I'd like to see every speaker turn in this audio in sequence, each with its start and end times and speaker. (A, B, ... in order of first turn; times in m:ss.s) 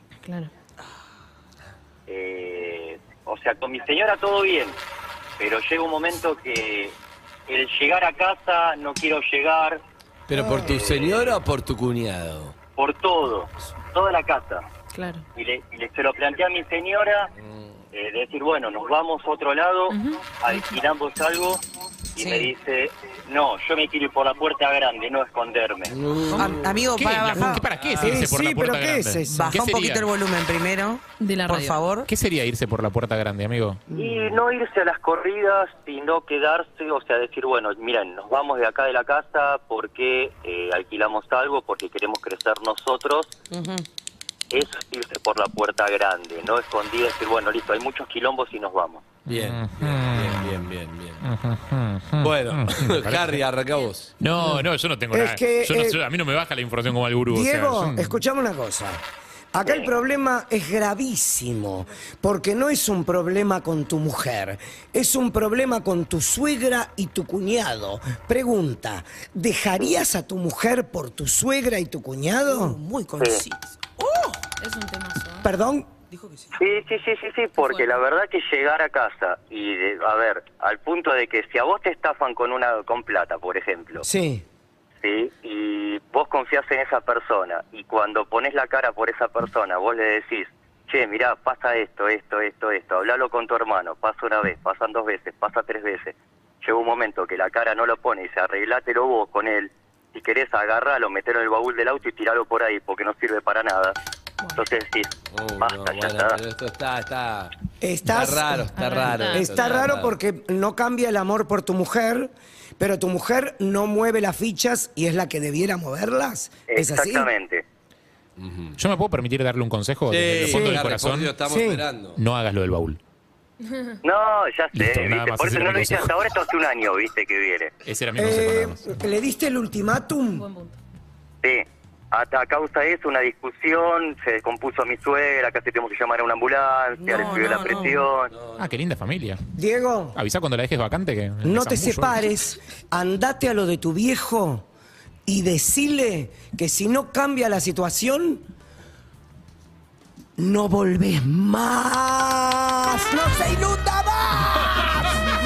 0:00.2-0:00.5 A
0:02.1-0:04.8 B
0:05.4-0:07.0 B
0:07.5-0:09.8 B
0:10.3-0:12.6 C
0:10.4-0:10.7 D
0:10.6-0:11.4 B
0:12.8-0:14.6 B
0:14.9-0:15.2 A
0:15.4-0:17.3 B
0:17.4-0:17.7 C
0:17.9-0:21.6 B
0:19.9-0:20.6 A
0:22.2-0:25.9 B
0:22.2-0:22.5 E
0:25.9-0:26.8 C
0:26.4-0:27.7 E
0:26.4-0:30.1 F
0:28.0-0:29.5 D
0:29.3-0:32.1 E
0:31.2-0:31.8 A
0:32.1-0:33.8 F
0:33.9-0:34.4 D
0:33.9-0:43.3 B
0:43.5-0:43.8 E
0:44.5-0:49.1 B
0:49.3-0:50.6 F
0:49.3-0:51.2 C
0:51.2-0:53.4 F
0:52.2-0:54.1 C
0:54.2-0:58.2 F
0:54.4-0:56.0 D
0:57.3-0:59.0 D
0:59.5-1:12.8 D
0:59.6-0:59.9 B
1:12.5-1:14.4 E
1:14.6-1:15.5 A
1:15.4-1:15.9 D
1:16.1-1:16.6 E
1:16.6-1:24.1 B
1:17.6-1:17.9 A
1:24.0-1:24.4 D
1:25.0-1:44.0 B
1:44.5-1:46.4 B
1:45.3-1:47.5 C
1:47.8-1:57.3 D
1:48.0-1:50.2 C
1:48.7-1:49.7 A
1:56.7-1:57.6 B
1:58.4-1:58.8 C
1:58.8-2:01.3 F
2:00.1-2:02.2 C
2:00.5-2:00.8 D
2:01.5-2:01.8 D
2:02.2-2:03.0 F
2:03.7-2:04.0 A
2:04.0-2:07.7 B
2:04.7-2:06.2 F
2:07.8-2:09.0 F
2:08.2-2:10.5 D
2:10.4-2:10.8 A
2:11.4-2:18.3 B
2:17.0-2:18.0 E
2:18.3-2:18.6 C
2:18.6-2:19.4 F
2:19.6-2:20.2 D
2:20.2-2:22.3 F
2:21.4-2:24.7 D
2:25.3-2:28.4 D
2:30.4-2:35.3 D